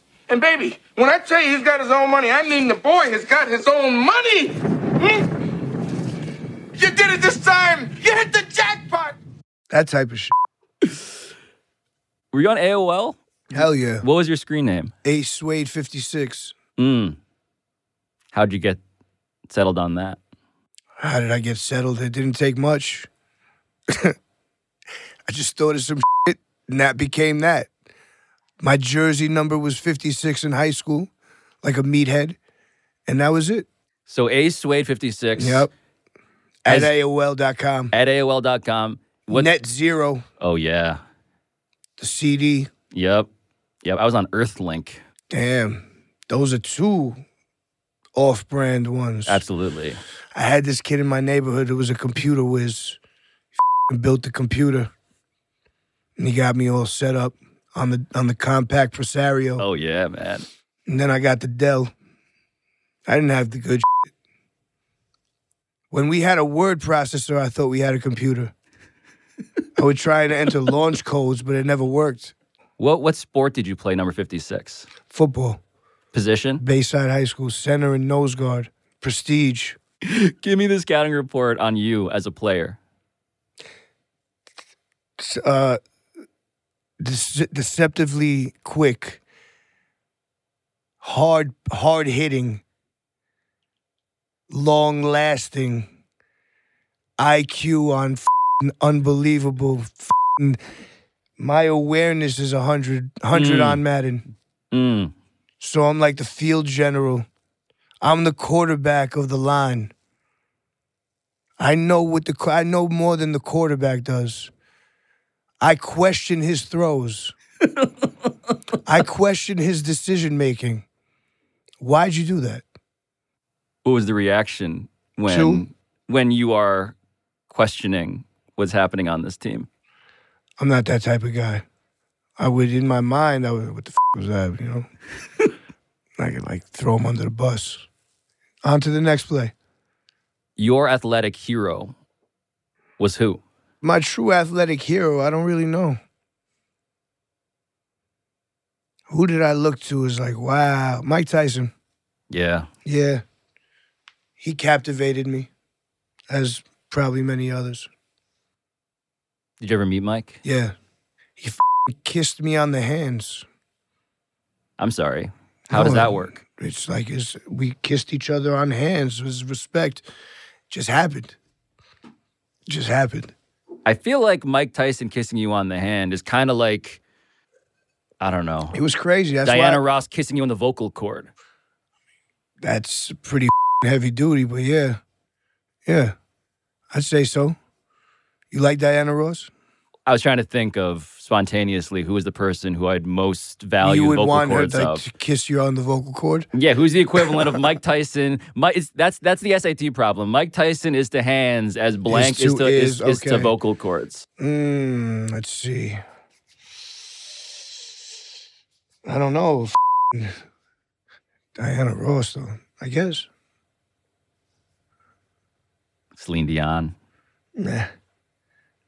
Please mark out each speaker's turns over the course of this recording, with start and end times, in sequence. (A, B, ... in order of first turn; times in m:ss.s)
0:00.3-0:05.2 A
0:06.8-0:09.2 A
0:09.7-0:10.3 B
0:12.3-0:14.9 C
0:13.5-0:14.1 B
0:15.0-0:16.5 B
0:16.8-0:17.2 C
0:18.3-0:18.8 C
0:19.5-0:20.2 C
0:21.0-0:23.1 B
0:23.9-0:24.2 B
0:25.3-0:27.7 B
0:28.6-0:31.1 B
0:31.6-0:32.4 B
0:33.1-0:33.7 B
0:34.1-0:35.7 C
0:35.4-0:35.7 B
0:36.6-0:37.9 B
0:36.7-0:37.0 C
0:37.9-0:39.5 C
0:39.3-0:40.2 B
0:40.4-0:41.0 C
0:42.0-0:42.7 B
0:42.9-0:43.3 C
0:43.8-0:45.0 C
0:45.3-0:47.2 B
0:48.1-0:49.4 B
0:49.3-0:50.0 C
0:50.3-0:53.0 B
0:53.9-0:54.9 B
0:56.2-0:59.6 B
0:59.6-1:00.5 C
1:00.9-1:01.9 B
1:03.1-1:04.1 B
1:05.9-1:08.5 B
1:09.8-1:12.3 B
1:12.8-1:14.9 C
1:15.1-1:15.6 B
1:16.1-1:16.6 C
1:16.6-1:19.8 B
1:20.0-1:22.8 C
1:25.2-1:25.8 B
1:27.0-1:29.2 B
1:31.0-1:32.6 B
1:34.5-1:35.9 B
1:37.2-1:40.6 B
1:41.4-1:44.2 B
1:43.3-1:43.8 C
1:44.7-1:45.1 C
1:45.6-1:47.3 B
1:48.0-1:49.9 B
1:51.6-1:54.5 B
1:55.6-1:57.4 B
1:58.8-2:00.8 B
2:01.8-2:02.6 B
2:03.8-2:07.0 C
2:05.3-2:05.7 B
2:07.5-2:09.7 C
2:10.6-2:11.6 B
2:12.4-2:14.9 B
2:16.2-2:17.8 B
2:18.6-2:19.5 B
2:20.6-2:21.9 C
2:23.0-2:23.4 C
2:23.8-2:26.0 B
2:29.1-2:31.7 B
2:32.3-2:32.7 C
2:32.8-2:33.2 B
2:34.4-2:35.5 B
2:36.3-2:37.9 B
2:39.6-2:40.4 C
2:40.4-2:40.7 B
2:41.4-2:43.5 B
2:44.8-2:46.4 C
2:45.7-2:50.0 B
2:50.7-2:51.4 B
2:52.7-2:53.3 B
2:53.9-2:57.0 C
2:58.2-2:58.8 C
2:58.7-2:59.8 B
2:59.4-3:01.3 C
3:02.6-3:05.0 B
3:05.9-3:06.2 B
3:06.9-3:07.6 B
3:08.5-3:09.5 B
3:10.1-3:15.0 C
3:13.8-3:16.5 B
3:16.5-3:24.3 C
3:17.2-3:17.6 B
3:22.1-3:23.5 B
3:24.4-3:26.0 B
3:29.0-3:30.4 B
3:31.6-3:33.3 B
3:36.2-3:37.0 C
3:37.6-3:37.9 B